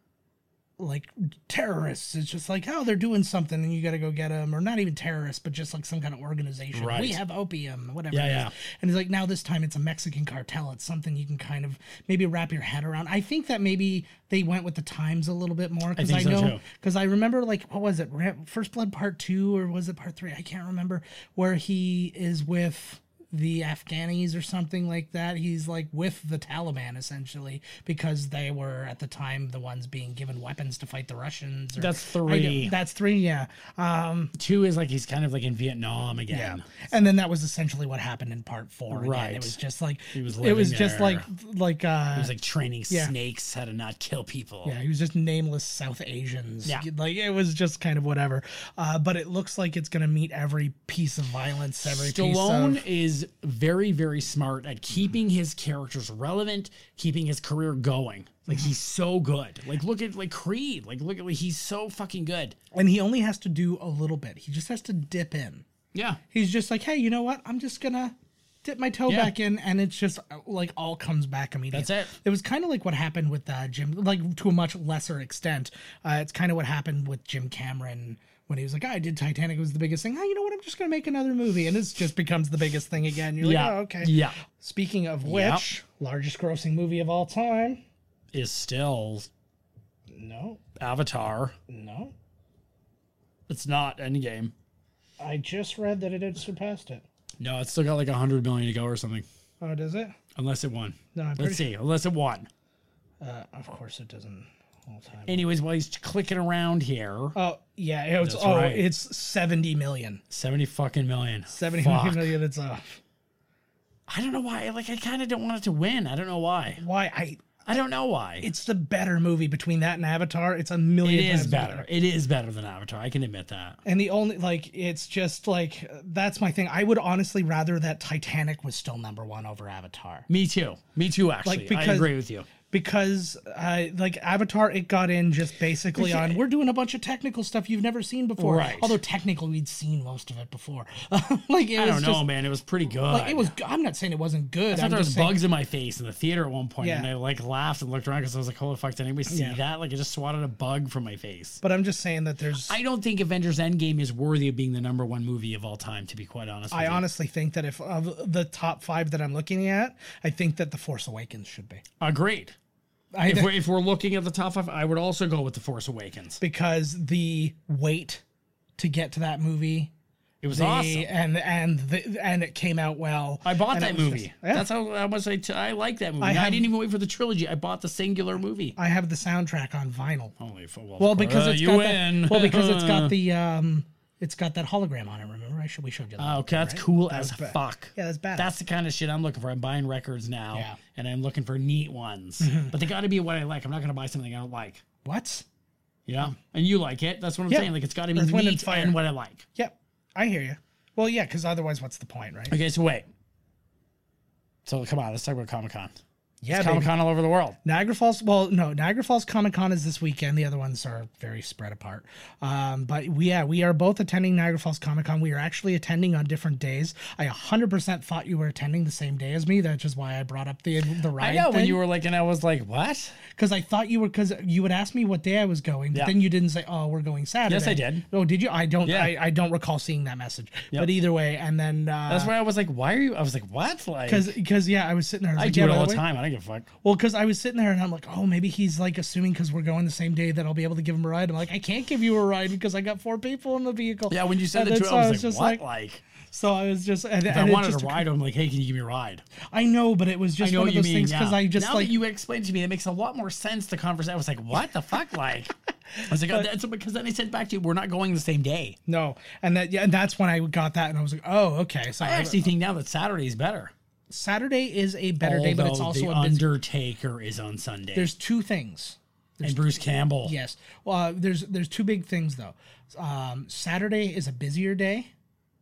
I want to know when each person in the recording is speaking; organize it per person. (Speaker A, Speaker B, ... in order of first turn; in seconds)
Speaker A: 0.8-34.4, 36.3-42.3, 42.9-43.1, 44.6-52.8, 62.7-65.7, 66.3-87.8, 90.1-90.6, 91.7-92.1, 95.2-97.0, 99.6-100.2, 101.2-101.7, 103.2-105.5, 107.3-110.2, 111.5-113.0, 116.8-117.5, 118.4-121.9, 123.8-130.3, 131.4-132.1, 132.7-142.3, 143.1-145.4, 146.8-147.1, 149.3-149.6, 151.6-152.8, 156.7-161.8, 163.1-163.6, 166.4-168.2, 168.8-169.9, 170.5-174.7, 176.2-176.7, 178.8-180.3, 181.0-188.5, 190.5-190.8, 192.4-192.8, 195.1-195.4, 197.5-199.0, 199.6-202.6, 206.4-206.9, 207.6-221.8, 223.3-232.3, 234.1-236.1, 236.8-245.6, 246.3-248.1, 249.5-252.0, 256.1-256.5, 258.9-262.5, 264.1-266.5, 267.9-275.1
Speaker B: 6.7-7.2, 8.1-8.5, 16.0-16.6, 31.8-32.8, 34.4-36.6, 38.9-39.6, 40.1-41.3, 42.1-44.8, 51.8-62.6, 65.9-66.2, 69.1-69.3, 71.7-72.1, 83.4-84.4, 85.2-85.7, 88.3-89.3, 90.8-91.6, 93.5-94.5, 97.4-99.3, 100.4-102.5, 105.3-107.4, 108.2-108.9, 110.3-112.3, 114.1-116.8, 117.7-118.5, 121.0-123.8, 130.3-132.5, 135.9-136.4, 138.4-139.0, 141.8-143.5, 144.7-151.6, 152.7-157.0, 162.0-162.6, 163.2-166.4, 170.4-171.1, 173.4-178.8, 180.4-183.2, 186.2-194.8, 196.1-199.5, 202.5-203.1, 204.7-205.9, 206.5-207.6, 221.2-223.2, 227.5-228.1, 228.8-229.2, 232.1-234.3, 235.4-236.7, 244.1-246.0, 247.3-249.2, 250.4-258.8, 262.0-263.7, 265.2-268.1, 269.4-270.4